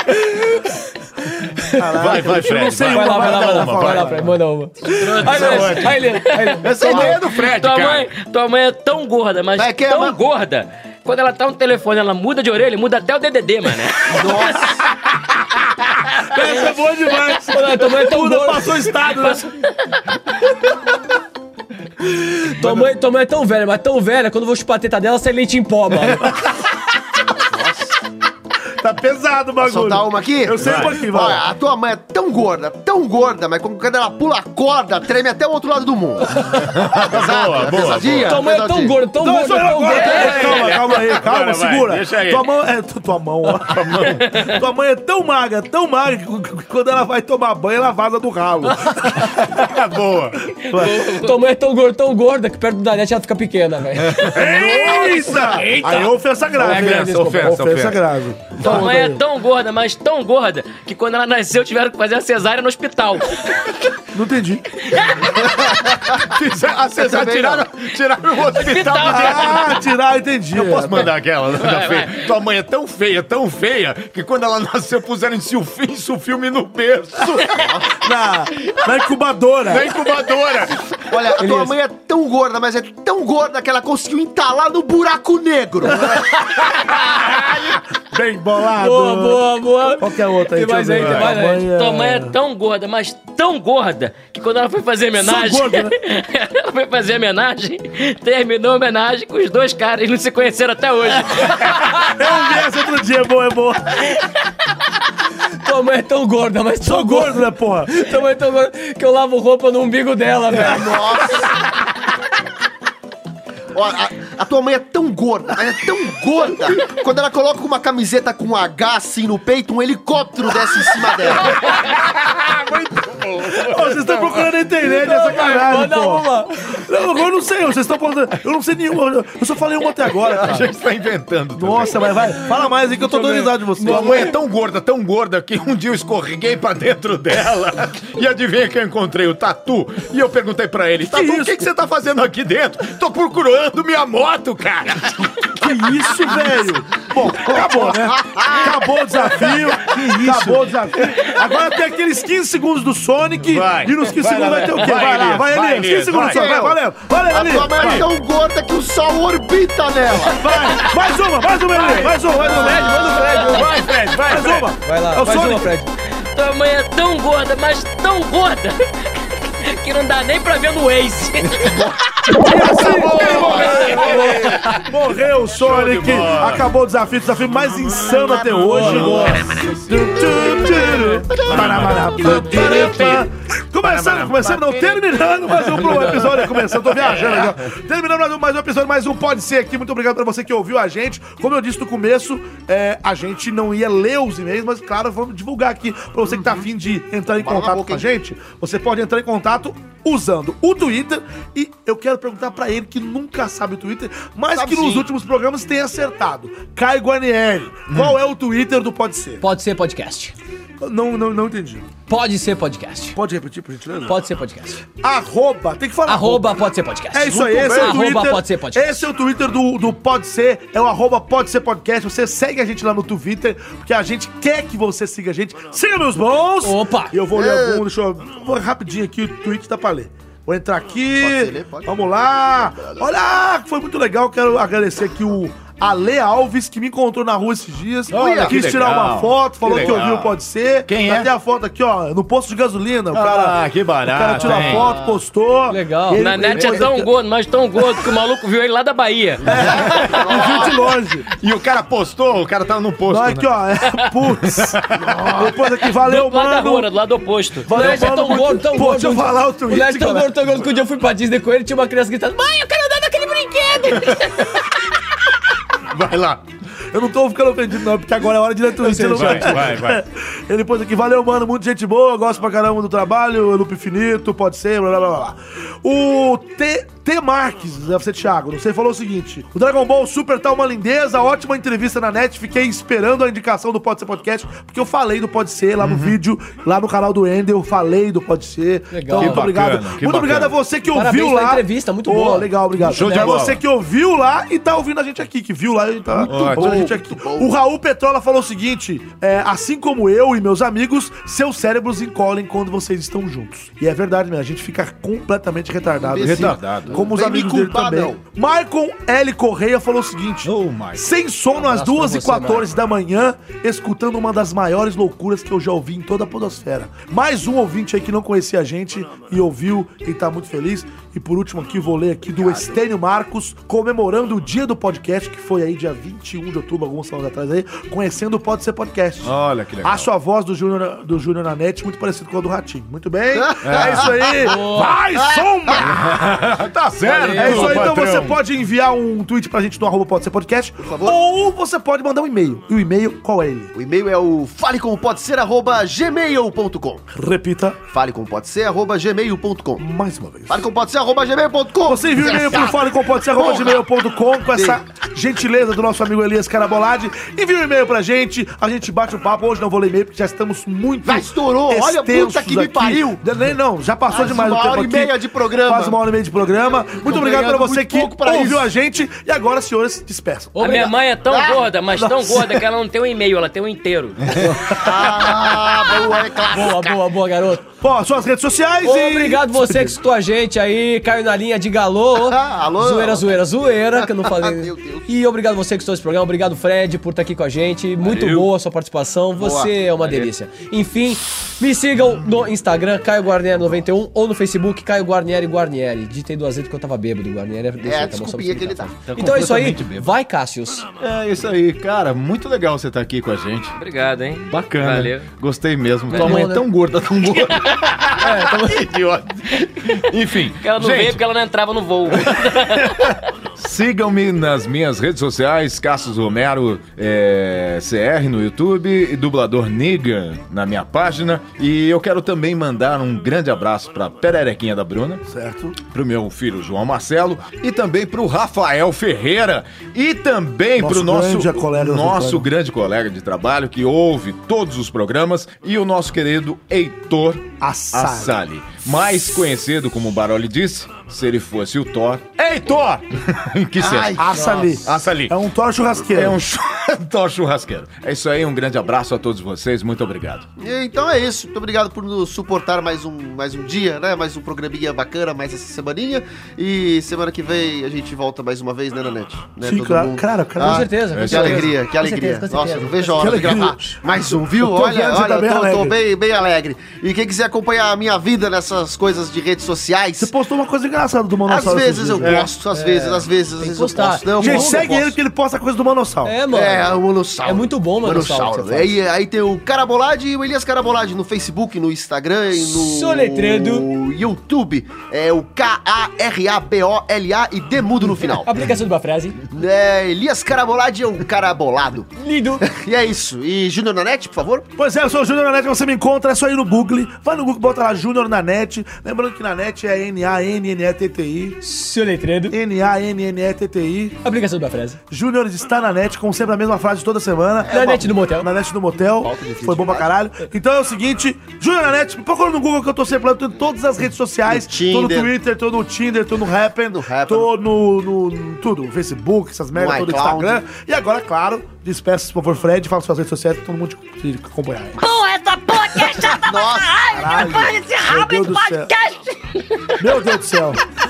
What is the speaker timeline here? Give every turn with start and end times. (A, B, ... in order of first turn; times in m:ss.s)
0:01.4-0:01.8 A
0:01.7-0:04.2 B
0:01.9-0:04.3 C
0:02.9-0:07.2 A
0:04.9-0:08.1 C
0:04.9-0:14.6 D
0:09.6-0:10.2 E
0:14.1-0:14.9 E
0:16.2-0:19.5 B
0:17.5-0:18.9 A
0:19.1-0:19.5 D
0:22.1-0:26.3 A
0:22.6-0:22.9 B
0:27.4-0:28.0 E
0:28.8-0:31.4 B
0:29.6-0:39.1 E
0:30.6-0:31.0 C
0:36.4-0:38.5 C
0:38.2-0:40.6 A
0:39.1-0:49.3 B
0:39.9-0:42.5 C
0:43.6-0:44.4 C
0:49.0-0:50.5 C
0:50.7-0:51.1 B
0:50.7-0:51.3 D
0:51.0-0:55.9 A
0:54.0-0:58.1 C
0:54.3-0:59.2 B
0:56.7-0:57.5 A
0:58.6-1:03.7 D
1:04.1-1:04.7 B
1:04.9-1:05.4 D
1:05.4-1:06.3 E
1:06.2-1:09.8 C
1:07.0-1:07.7 E
1:08.6-1:09.6 D
1:09.0-1:11.1 B
1:10.5-1:17.6 C
1:11.6-1:12.3 D
1:17.5-1:18.0 E
1:18.0-1:19.9 B
1:19.7-1:21.4 C
1:21.1-1:26.2 E
1:21.4-1:21.7 A
1:27.0-1:32.3 B
1:28.8-1:31.7 A
1:31.0-1:31.2 C
1:31.7-1:41.7 D
1:35.2-1:35.9 B
1:42.0-1:44.2 B
1:45.6-1:51.0 A
1:46.8-1:47.9 B
1:50.5-1:51.6 E
1:53.7-2:01.6 E
2:01.4-2:04.4 C
2:03.6-2:10.7 B
2:04.8-2:06.8 A
2:10.0-2:12.4 C
2:11.6-2:14.3 B
2:13.0-2:14.3 A
2:13.8-2:26.2 C
2:21.0-2:21.6 B
2:25.6-2:38.1 B
2:27.2-2:29.5 E
2:29.9-2:30.6 A
2:33.4-2:36.6 C
2:36.2-2:40.5 E
2:37.8-2:38.1 C
2:40.3-2:43.0 B
2:41.8-2:43.7 A
2:43.3-2:44.7 C
2:44.3-2:45.8 B
2:44.4-2:45.9 A
2:46.3-2:51.8 D
2:52.3-3:29.4 B
2:52.4-2:54.8 C
2:52.6-2:54.7 A
2:55.5-2:56.6 C
2:58.6-2:59.4 A
2:58.7-3:03.2 C
3:01.4-3:02.5 E
3:03.8-3:04.8 C
3:05.7-3:06.2 C
3:16.3-3:16.6 E
3:17.4-3:18.1 E
3:24.5-3:25.1 E
3:27.9-3:28.2 C
3:29.4-3:30.4 A
3:30.8-3:31.9 B
3:32.1-3:33.2 A
3:33.2-3:34.2 B
3:34.1-3:34.8 A
3:35.0-3:36.6 B
3:36.1-3:39.1 A
3:37.1-4:07.1 B
3:37.5-3:38.0 E
3:46.6-3:47.2 A
3:47.3-3:47.9 E
3:51.2-3:53.1 E
3:58.1-4:00.4 C
3:58.1-3:58.8 E
3:59.7-4:00.0 E
4:00.9-4:01.3 C
4:03.1-4:04.9 C
4:05.7-4:06.6 A
4:06.2-4:09.6 D
4:09.5-4:11.3 B
4:09.5-4:10.8 E
4:09.6-4:10.2 C
4:11.4-4:13.5 C
4:13.1-4:16.9 B
4:14.4-4:15.2 C
4:15.0-4:15.6 E
4:15.9-4:17.7 D
4:17.6-4:20.4 B
4:17.7-4:24.6 A
4:25.9-4:26.4 C
4:26.9-5:36.0 B
4:28.8-4:29.7 A
4:29.1-4:30.0 C
4:45.8-4:46.2 C
4:48.9-4:49.5 A
4:49.2-4:50.6 C
4:50.8-4:53.4 A
4:52.9-4:53.6 C
4:56.1-4:57.5 E
4:56.2-4:57.0 C
5:06.0-5:08.2 E
5:06.2-5:07.0 C
5:10.4-5:11.1 C
5:11.5-5:12.8 A
5:22.3-5:22.8 E
5:29.2-5:30.1 C
5:33.3-5:34.5 E
5:33.6-5:34.3 C
5:34.4-5:35.0 A
5:35.2-5:35.9 E
5:35.8-5:38.4 C
5:37.0-5:37.9 A
5:37.4-5:43.7 B
5:40.8-5:41.2 E
5:43.8-5:47.1 E
5:47.1-5:47.8 B
5:47.9-5:49.9 E
5:49.8-5:50.7 B
5:50.5-5:53.9 E
5:51.8-6:10.9 B
5:54.5-5:54.8 E
6:01.0-6:03.2 E
6:04.1-6:06.0 E
6:06.9-6:08.7 E
6:10.6-6:14.7 D
6:11.3-6:11.6 E
6:12.0-6:12.6 B
6:14.4-6:14.8 B
6:14.7-6:17.0 E
6:16.4-6:17.7 A
6:17.7-6:20.0 B
6:18.8-6:40.9 A
6:22.2-6:23.4 E
6:24.0-6:25.1 E
6:28.0-6:28.4 D
6:29.4-6:29.7 E
6:30.0-6:30.2 D
6:37.8-6:39.0 E
6:39.1-6:40.1 C
6:41.0-6:43.8 C
6:43.8-6:45.3 D
6:44.4-6:51.2 C
6:46.1-6:46.4 D
6:46.2-6:46.7 A
6:47.4-6:47.8 D
6:48.2-6:48.8 A
6:50.6-6:53.2 D
6:52.1-7:05.2 C
7:05.3-7:05.8 B
7:05.8-7:25.4 C
7:10.8-7:12.5 B
7:17.6-7:18.4 B
7:23.8-7:24.3 E
7:24.2-7:26.4 B
7:26.0-7:30.5 C
7:30.6-7:50.3 E
7:39.6-7:40.9 B
7:40.6-7:43.5 A
7:41.1-7:41.7 C
7:43.2-7:44.0 B
7:44.6-7:46.0 B
7:50.2-7:52.5 B
7:51.5-7:55.0 E
7:52.2-7:52.5 C
7:52.7-7:55.2 A
7:54.3-7:56.4 B
7:56.2-7:58.9 A
7:56.5-8:08.5 E
8:02.6-8:03.9 A
8:08.2-8:09.4 A
8:09.5-8:12.1 E
8:12.2-8:12.6 A
8:12.6-8:14.7 E
8:14.8-8:21.6 B
8:21.6-8:22.6 A
8:22.5-8:24.2 B
8:24.2-8:25.0 A
8:25.1-8:45.0 B
8:27.6-8:28.1 E
8:27.7-8:28.5 A
8:29.1-8:30.1 E
8:34.4-8:35.3 E
8:36.9-8:37.6 E
8:39.7-8:40.6 E
8:45.0-8:49.4 F
8:46.3-8:47.7 E
8:47.2-8:48.9 B
8:50.0-8:50.8 B